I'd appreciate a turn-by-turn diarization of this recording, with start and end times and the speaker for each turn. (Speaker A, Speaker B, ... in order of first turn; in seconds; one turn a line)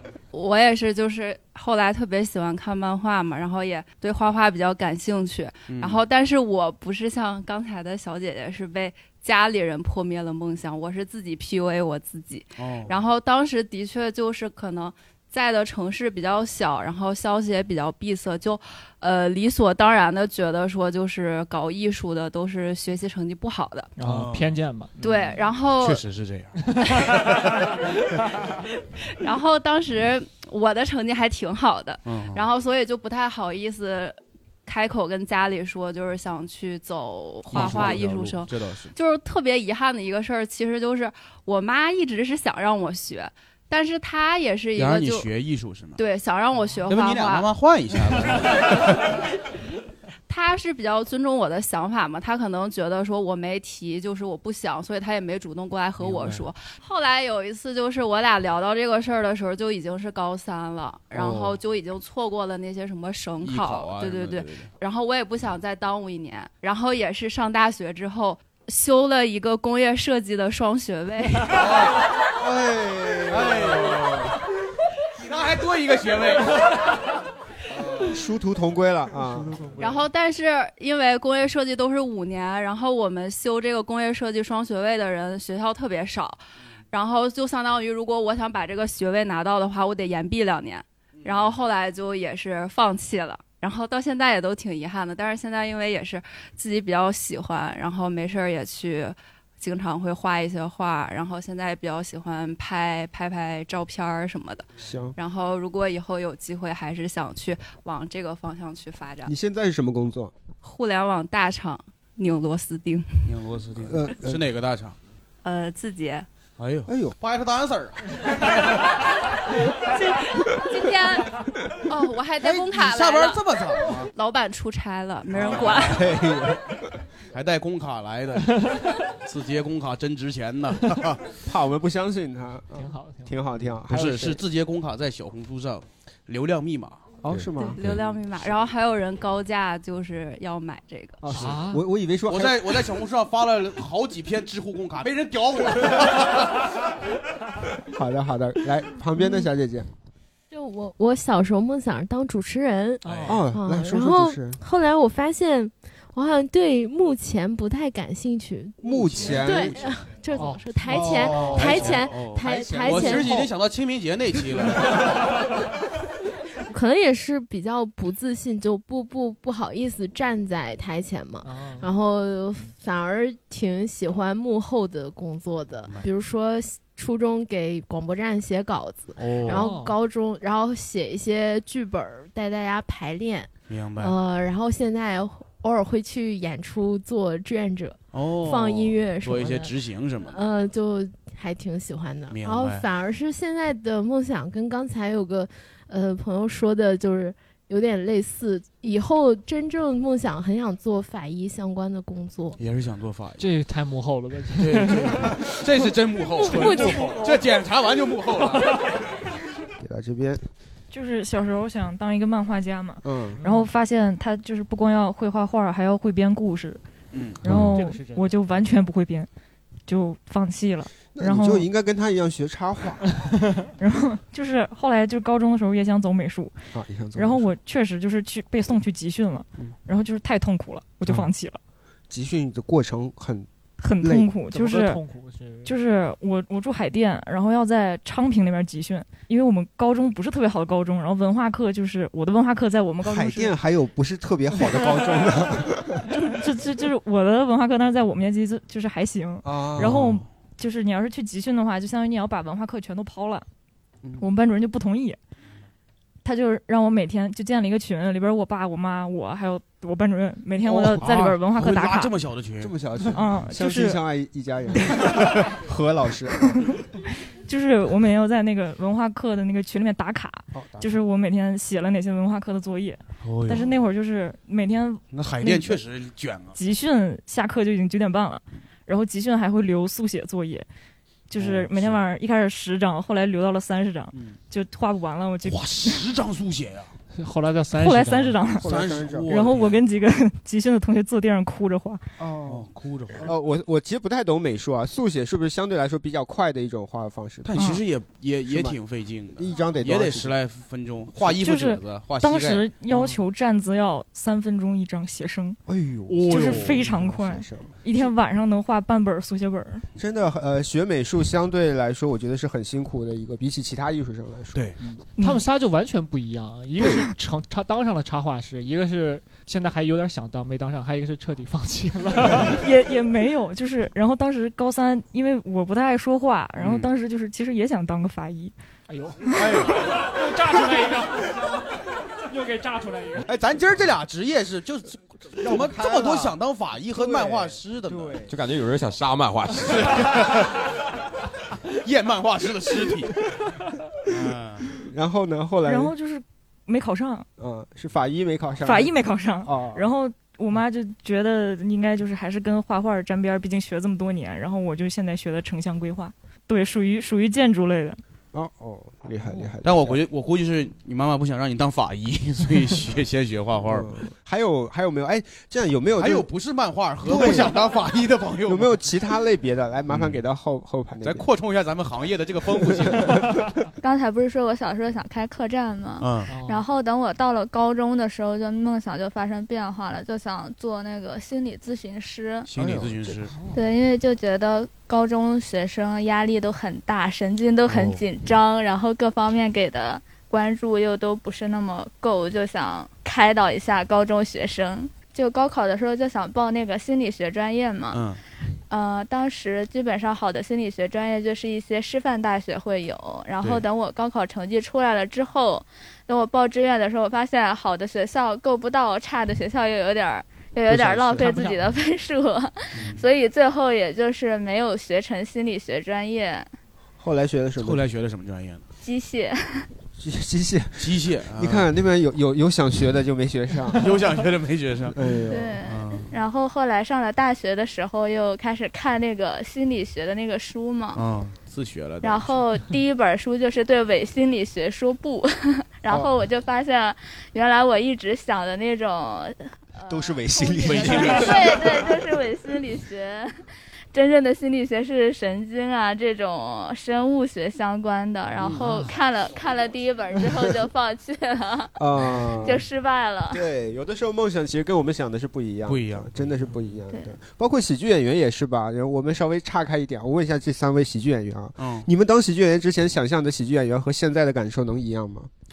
Speaker A: 0.3-23.9
Speaker B: 5.7-6.0
Speaker B: 12.6-12.9
Speaker C: 24.0-24.9
Speaker B: 24.0-26.6
Speaker A: 25.0-26.0
Speaker A: 29.2-45.3
Speaker B: 32.0-32.5
Speaker B: 37.5-38.9
Speaker B: 44.7-46.0
Speaker A: 46.0-47.5
Speaker B: 46.9-48.9
Speaker A: 50.3-71.7
Speaker B: 56.0-56.5
Speaker B: 61.1-61.6
Speaker B: 63.4-64.7
Speaker B: 71.5-72.0
Speaker D: 72.4-74.2
Speaker B: 73.3-74.3
Speaker B: 75.2-76.7
Speaker B: 77.8-78.1
Speaker D: 78.0-79.6
Speaker A: 79.8-86.4
Speaker A: 86.9-109.3
Speaker B: 91.2-91.5
Speaker D: 104.8-105.2
Speaker D: 109.2-110.3
Speaker A: 110.6-113.3
Speaker B: 113.2-115.0
Speaker D: 113.8-114.4
Speaker A: 115.4-116.3
Speaker B: 116.6-118.1
Speaker D: 116.9-117.1
Speaker A: 119.9-121.3
Speaker A: 121.9-126.0
Speaker B: 122.4-124.1
Speaker B: 125.3-125.9
Speaker D: 125.5-126.8
Speaker B: 127.3-131.2
Speaker D: 131.4-134.4
Speaker C: 132.7-133.4
Speaker B: 133.9-137.0
Speaker D: 137.2-137.8
Speaker E: 137.3-138.0
Speaker A: 137.6-141.2
Speaker D: 141.2-142.7
Speaker C: 141.3-141.8
Speaker B: 142.3-146.7
Speaker D: 147.9-149.9
Speaker F: 150.5-158.8
Speaker C: 153.0-153.4
Speaker B: 153.0-153.4
Speaker D: 153.3-154.6
Speaker D: 158.8-159.8
Speaker B: 158.8-160.0
Speaker F: 159.3-163.4
Speaker C: 160.3-160.6
Speaker D: 160.9-163.5
Speaker B: 161.0-165.2
Speaker F: 166.7-189.7
Speaker C: 171.4-171.9
Speaker B: 179.2-179.6
Speaker C: 179.5-179.9
Speaker B: 183.7-184.1
Speaker B: 188.1-190.4
Speaker F: 190.3-202.6
Speaker B: 192.3-192.8
Speaker B: 202.6-203.4
Speaker C: 203.4-205.4
Speaker B: 204.6-208.8
Speaker C: 206.5-207.2
Speaker D: 209.8-210.4
Speaker G: 210.9-216.8
Speaker D: 213.0-213.4
Speaker C: 213.4-213.7
Speaker B: 217.1-217.4
Speaker G: 217.4-219.3
Speaker E: 217.4-217.7
Speaker C: 217.7-218.8
Speaker G: 219.9-221.7
Speaker D: 221.1-223.1
Speaker G: 223.8-226.6
Speaker D: 226.7-227.5
Speaker G: 227.1-231.6
Speaker D: 232.1-233.5
Speaker G: 233.8-235.0
Speaker D: 234.0-234.3
Speaker C: 234.5-235.7
Speaker G: 235.6-243.5
Speaker D: 243.0-246.1
Speaker G: 246.1-253.4
Speaker D: 249.4-250.1
Speaker B: 249.8-250.2
Speaker G: 254.2-255.2
Speaker G: 256.2-262.1
Speaker B: 260.6-262.7
Speaker D: 262.6-266.6
Speaker G: 263.1-264.0
Speaker G: 267.5-275.8
Speaker D: 270.5-271.0
Speaker B: 273.2-273.7
Speaker B: 275.1-276.6
Speaker G: 276.5-280.6
Speaker G: 281.3-286.0
Speaker B: 281.4-282.0
Speaker B: 285.4-286.9
Speaker C: 287.1-288.4
Speaker G: 287.8-288.7
Speaker D: 288.6-289.5
Speaker B: 288.6-289.8
Speaker G: 289.3-292.0
Speaker D: 292.2-292.7
Speaker B: 292.5-293.3
Speaker D: 293.2-297.5
Speaker B: 297.4-302.6
Speaker G: 297.5-297.8
Speaker D: 298.5-298.8
Speaker D: 299.4-300.3
Speaker G: 301.3-305.6
Speaker D: 305.6-307.7
Speaker B: 306.1-306.9
Speaker G: 306.2-309.9
Speaker D: 310.0-314.7
Speaker G: 315.2-315.4
Speaker C: 315.2-322.6
Speaker G: 322.4-328.5
Speaker B: 326.6-326.9
Speaker C: 328.9-329.3
Speaker B: 329.3-329.9
Speaker C: 329.9-331.6
Speaker C: 332.3-333.3
Speaker B: 333.3-338.2
Speaker D: 335.4-336.3
Speaker D: 336.9-338.3
Speaker E: 338.3-340.1
Speaker B: 339.7-340.6
Speaker B: 341.8-343.2
Speaker B: 344.1-344.7
Speaker D: 344.9-345.9
Speaker G: 345.6-347.2
Speaker D: 347.4-348.9
Speaker G: 348.6-358.0
Speaker D: 349.4-349.9
Speaker D: 358.3-360.0
Speaker B: 359.6-363.9
Speaker D: 363.7-366.3
Speaker B: 366.0-368.8
Speaker D: 367.0-367.6
Speaker D: 368.4-371.2
Speaker B: 369.9-370.2
Speaker B: 371.0-373.2
Speaker H: 373.8-382.5
Speaker B: 376.0-376.3
Speaker C: 376.3-376.6
Speaker B: 382.5-383.3
Speaker D: 382.6-383.0
Speaker H: 383.5-398.0
Speaker B: 387.6-388.0
Speaker B: 397.9-398.2
Speaker H: 398.7-416.5
Speaker C: 411.2-411.6
Speaker B: 412.7-413.0
Speaker D: 417.0-417.8
Speaker B: 417.6-418.6
Speaker H: 418.8-419.7
Speaker D: 420.0-423.9
Speaker B: 420.8-421.7
Speaker B: 423.7-425.0
Speaker D: 424.9-425.6
Speaker H: 425.3-431.0
Speaker B: 425.6-426.1
Speaker B: 430.9-432.4
Speaker H: 432.0-443.4
Speaker D: 439.9-441.9
Speaker B: 440.6-441.6
Speaker H: 443.9-451.7
Speaker C: 448.6-448.9
Speaker D: 451.8-452.6
Speaker B: 452.2-452.5
Speaker H: 452.4-453.4
Speaker D: 453.3-465.3
Speaker B: 455.7-456.1
Speaker B: 461.6-461.9